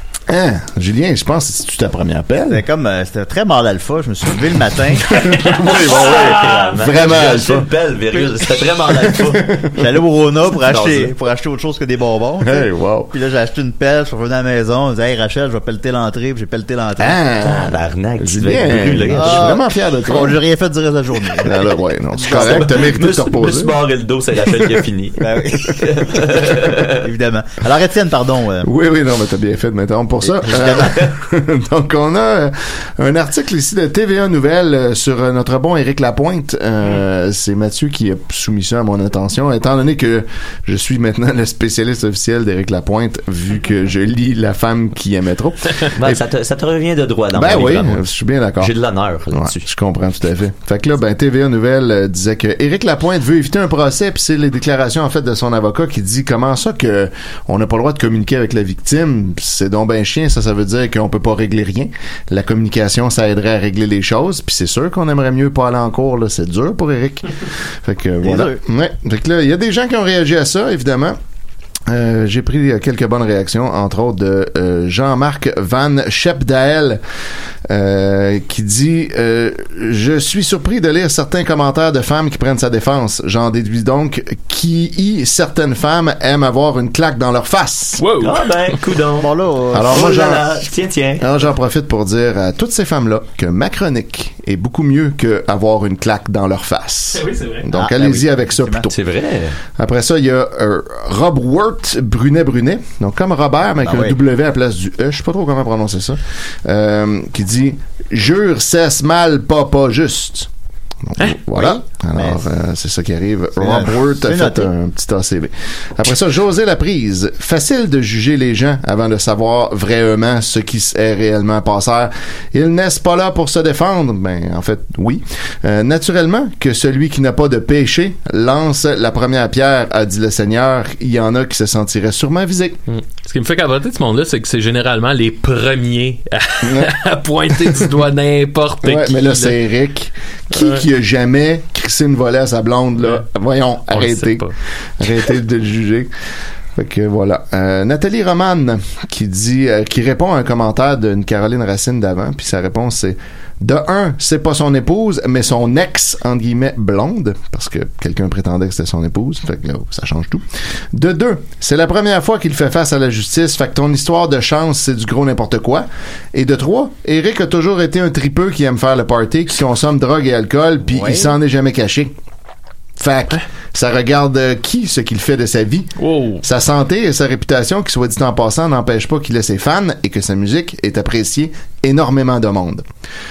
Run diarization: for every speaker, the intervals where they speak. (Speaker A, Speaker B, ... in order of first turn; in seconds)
Speaker A: 0.3-2.6, 5.1-7.7, 8.8-9.9, 12.4-13.1, 17.0-20.4, 21.4-23.8, 28.6-46.2, 47.3-48.7, 49.3-71.2, 71.9-77.0, 77.7-88.0, 89.7-90.7, 91.2-99.0, 99.8-110.5, 111.0-132.8, 136.6-136.9, 137.6-137.9, 138.8-146.1, 146.8-172.1, 173.0-175.9, 176.4-182.8
Speaker B: 2.5-5.2, 9.7-17.2, 19.1-22.9, 25.2-28.7, 30.2-31.0, 68.2-68.6, 89.2-90.4, 97.7-98.9, 103.8-104.2, 111.5-112.4, 113.6-114.7, 170.8-171.3
Speaker C: 5.4-6.8, 88.0-88.7, 97.1-97.7, 132.9-139.6, 140.5-140.8, 143.9-144.5, 176.0-176.4
Speaker D: 5.9-9.5, 10.6-11.1, 17.4-19.6, 22.3-27.1, 46.0-48.0, 48.6-49.7, 88.2-89.3, 89.9-91.2, 98.9-99.5